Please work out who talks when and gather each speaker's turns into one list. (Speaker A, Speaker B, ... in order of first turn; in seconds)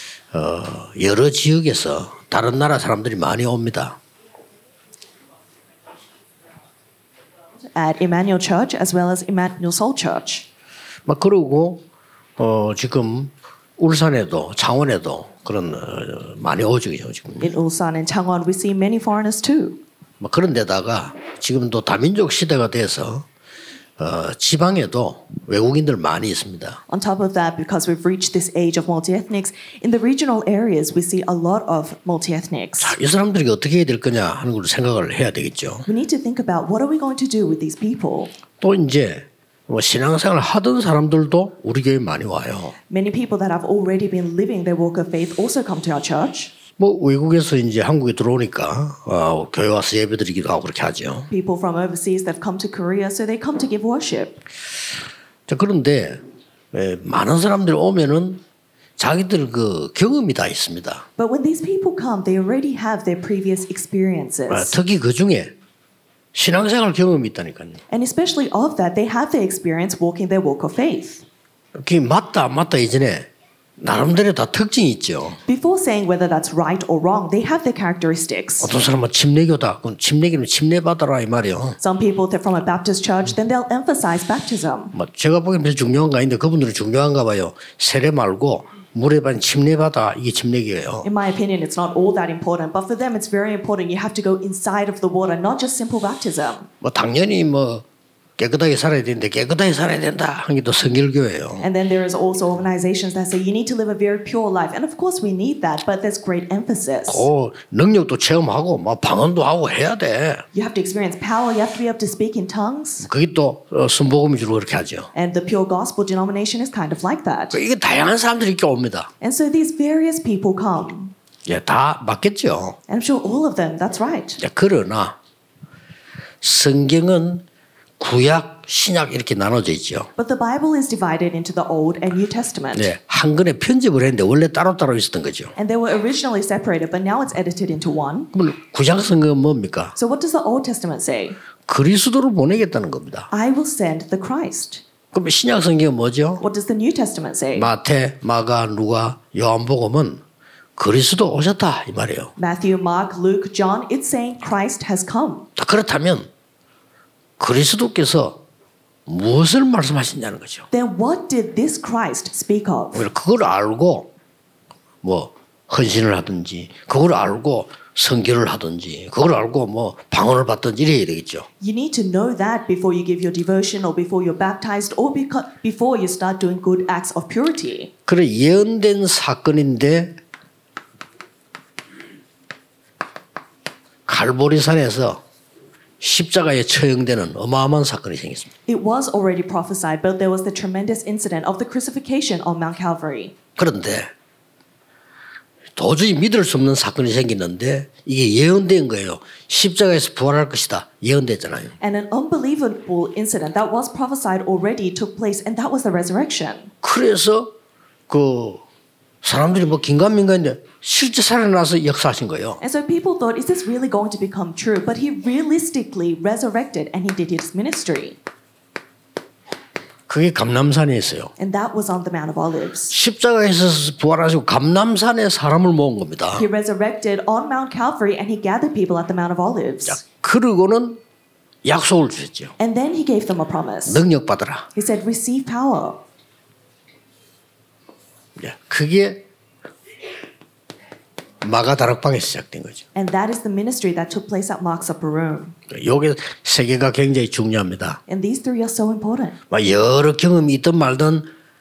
Speaker A: 0.3-4.0, 11.1-11.8, 12.4-17.5, 20.2-23.3, 24.0-26.8, 32.8-35.9, 38.6-42.8, 46.8-51.3, 55.5-56.2, 56.7-58.4, 59.0-61.0, 64.5-65.5, 66.3-67.8, 71.8-73.3, 73.8-75.4, 78.6-81.8, 84.9-91.1, 96.8-97.8, 98.4-101.7, 107.1-110.5, 113.1-115.1, 117.5-119.1, 121.5-122.8, 124.4-125.2, 126.4-127.5, 128.0-130.1, 132.8-135.5, 138.3-140.0, 141.7-143.3, 145.1-146.4, 147.6-150.2, 150.8-152.3, 155.6-156.3, 157.4-158.4, 159.1-160.7, 162.9-164.1, 165.0-171.5, 178.1-180.2, 184.1-185.2, 186.0-188.5, 193.6-194.1, 195.8-201.8, 206.8-207.5, 208.1-208.6, 209.2-212.6, 220.1-221.3, 222.9-226.5, 229.9-231.0, 231.6-232.5, 233.9-234.7, 238.4-239.2, 241.4-242.8, 245.7-248.0, 249.5-251.3
Speaker B: 7.8-10.5, 17.4-19.8, 26.9-33.0, 35.9-38.3, 42.9-46.5, 51.3-54.4, 61.2-64.8, 67.9-71.2, 75.5-78.7, 81.8-84.9, 91.0-96.7, 101.6-107.3, 110.5-113.1, 115.1-117.6, 119.2-121.1, 122.9-124.4, 130.2-132.9, 135.6-138.3, 140.0-141.4, 143.3-144.8, 146.4-147.7, 152.4-155.5, 160.7-163.1, 171.6-177.9, 188.7-193.3, 201.8-206.7, 212.6-218.2, 221.4-222.9, 226.3-230.0, 232.6-234.0, 234.8-236.0, 242.9-245.6, 248.1-249.4